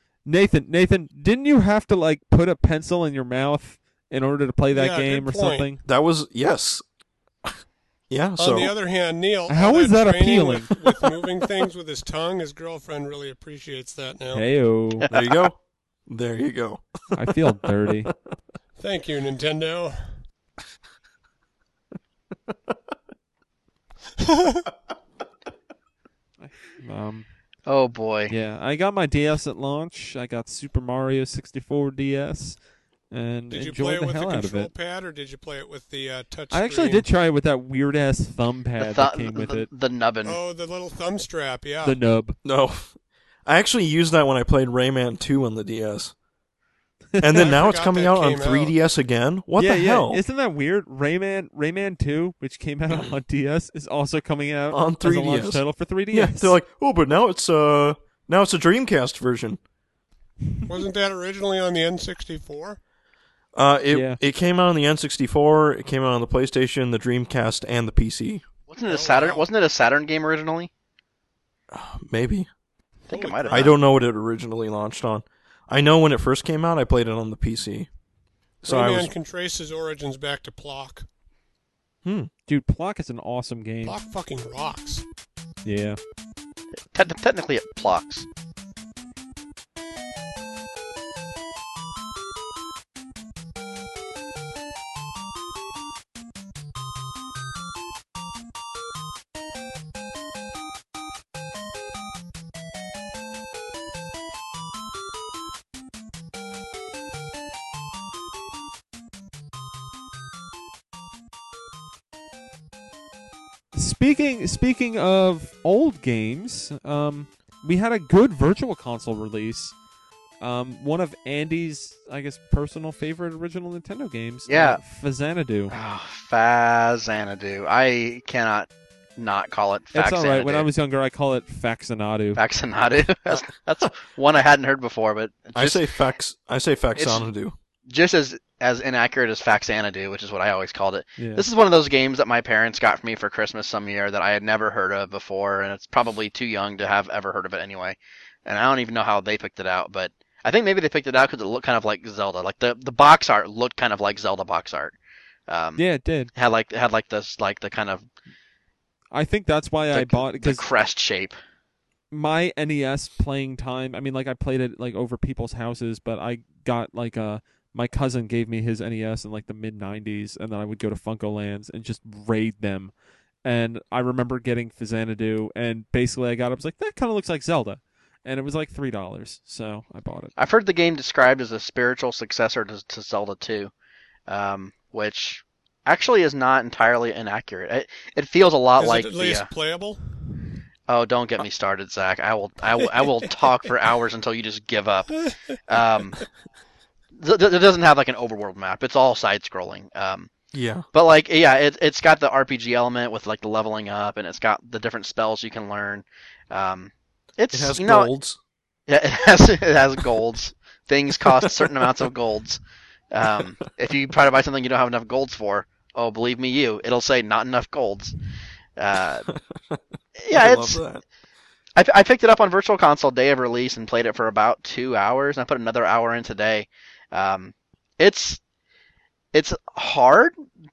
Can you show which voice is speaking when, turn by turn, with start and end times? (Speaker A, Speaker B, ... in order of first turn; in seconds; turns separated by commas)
Speaker A: 0.2-5.8, Speaker B: 4.7-5.7, Speaker C: 5.8-6.8, Speaker C: 8.1-8.7, Speaker B: 8.4-14.4, Speaker A: 9.5-10.8, Speaker A: 14.3-15.1, Speaker D: 15.0-15.5, Speaker C: 15.1-17.4, Speaker A: 17.1-18.1, Speaker B: 18.8-20.0, Speaker A: 26.4-27.3, Speaker D: 27.6-28.3, Speaker A: 28.3-32.6, Speaker A: 33.1-34.7, Speaker B: 33.5-37.0, Speaker A: 36.5-39.7, Speaker D: 38.8-40.4, Speaker B: 40.2-42.0, Speaker A: 41.8-42.4, Speaker C: 42.4-42.9, Speaker C: 43.5-46.1, Speaker A: 47.1-47.5, Speaker C: 47.2-50.2, Speaker B: 47.3-48.7, Speaker A: 49.5-56.5, Speaker C: 54.7-59.6, Speaker B: 60.7-62.8, Speaker C: 63.5-68.4, Speaker A: 63.9-64.2, Speaker D: 68.7-70.7, Speaker B: 68.8-69.4, Speaker C: 71.7-72.5, Speaker B: 73.1-73.7, Speaker D: 73.1-73.7, Speaker C: 73.5-77.9, Speaker C: 78.6-79.1, Speaker B: 78.7-81.0, Speaker C: 82.0-82.3, Speaker A: 82.5-84.0, Speaker B: 83.8-85.0, Speaker A: 85.6-86.0, Speaker D: 86.9-88.2, Speaker A: 113.7-119.7, Speaker A: 120.4-125.7, Speaker D: 124.5-124.8, Speaker D: 125.7-130.7, Speaker A: 129.9-132.4, Speaker D: 132.3-135.8, Speaker C: 135.5-137.5, Speaker D: 136.9-137.3, Speaker D: 137.9-154.9, Speaker A: 141.2-141.4, Speaker D: 155.5-155.8, Speaker A: 155.8-156.3, Speaker D: 156.3-158.1, Speaker A: 159.1-160.6, Speaker D: 159.9-161.3, Speaker A: 162.1-172.9, Speaker A: 173.4-180.3, Speaker D: 180.4-183.7, Speaker D: 184.3-189.5, Speaker B: 188.8-190.0, Speaker D: 190.9-195.1, Speaker D: 195.7-196.2, Speaker D: 197.1-200.3, Speaker C: 200.5-200.8, Speaker D: 200.9-208.1, Speaker C: 207.5-208.4, Speaker D: 208.9-212.6, Speaker D: 213.1-218.1, Speaker D: 218.8-219.2, Speaker C: 219.3-221.0, Speaker D: 220.2-220.8, Speaker D: 221.8-228.4, Speaker D: 229.3-230.3